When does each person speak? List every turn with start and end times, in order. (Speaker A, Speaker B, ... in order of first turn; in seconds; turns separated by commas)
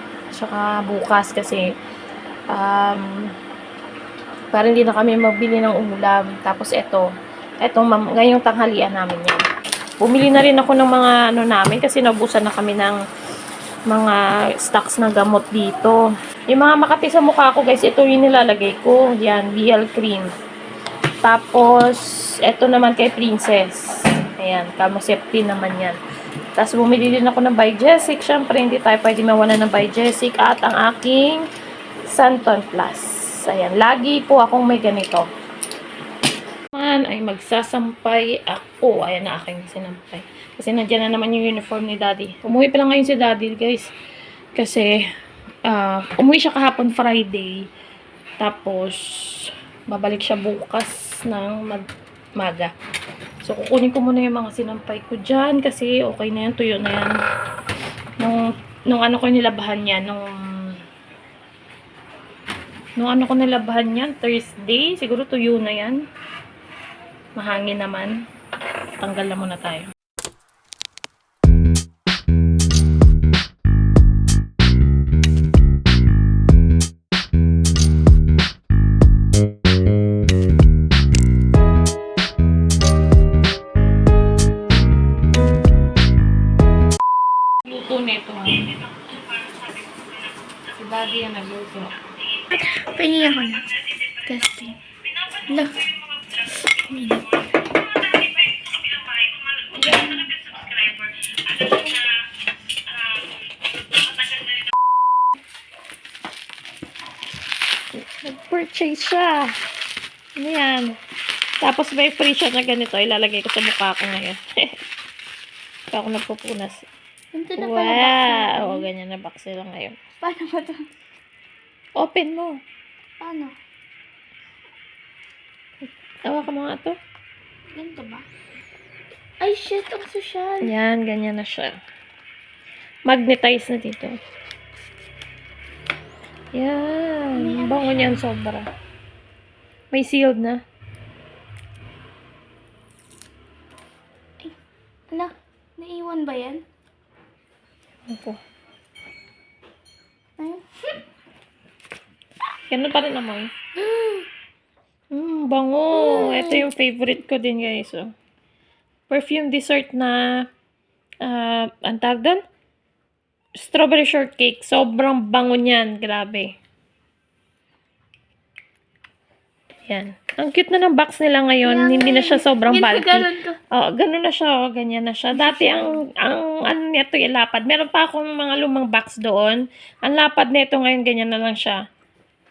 Speaker A: 0.3-1.6, Speaker A: 2.5-3.1, Speaker A: 4.5-7.1, Speaker A: 7.6-9.4, Speaker A: 10.0-13.0, Speaker A: 13.9-20.3, Speaker A: 21.2-26.0, Speaker A: 26.6-31.4, Speaker A: 32.1-35.3, Speaker A: 36.7-43.9, Speaker A: 44.5-45.0, Speaker A: 45.6-47.6, Speaker A: 48.4-51.8, Speaker A: 52.4-52.7, Speaker A: 53.4-57.1, Speaker A: 58.2-60.3, Speaker A: 63.0-66.0, Speaker A: 67.3-68.1, Speaker A: 69.0-69.9, Speaker A: 87.6-89.8, Speaker A: 90.6-92.0, Speaker B: 92.5-93.7, Speaker B: 94.2-94.8, Speaker B: 95.5-95.8, Speaker B: 96.9-97.2, Speaker A: 98.4-102.0, Speaker A: 102.9-103.2, Speaker A: 104.2-104.5, Speaker A: 108.2-109.5, Speaker A: 110.4-111.0, Speaker A: 111.6-114.7, Speaker A: 115.9-116.8, Speaker B: 117.3-118.9, Speaker A: 117.6-120.0, Speaker B: 120.2-120.8, Speaker A: 122.0-122.6, Speaker B: 123.2-123.5, Speaker A: 126.2-126.9, Speaker B: 127.7-128.2, Speaker B: 129.4-130.7, Speaker A: 130.6-131.7, Speaker A: 133.1-134.2, Speaker A: 136.5-138.7, Speaker B: 137.3-138.2, Speaker A: 139.9-140.6, Speaker B: 145.1-146.6, Speaker A: 148.1-148.4, Speaker A: 152.7-153.5, Speaker B: 153.8-154.2, Speaker A: 155.1-158.1, Speaker B: 155.9-156.6, Speaker A: 159.1-160.3, Speaker A: 161.2-162.4, Speaker A: 163.6-166.5, Speaker A: 169.9-181.8, Speaker B: 171.6-173.6, Speaker B: 175.3-175.9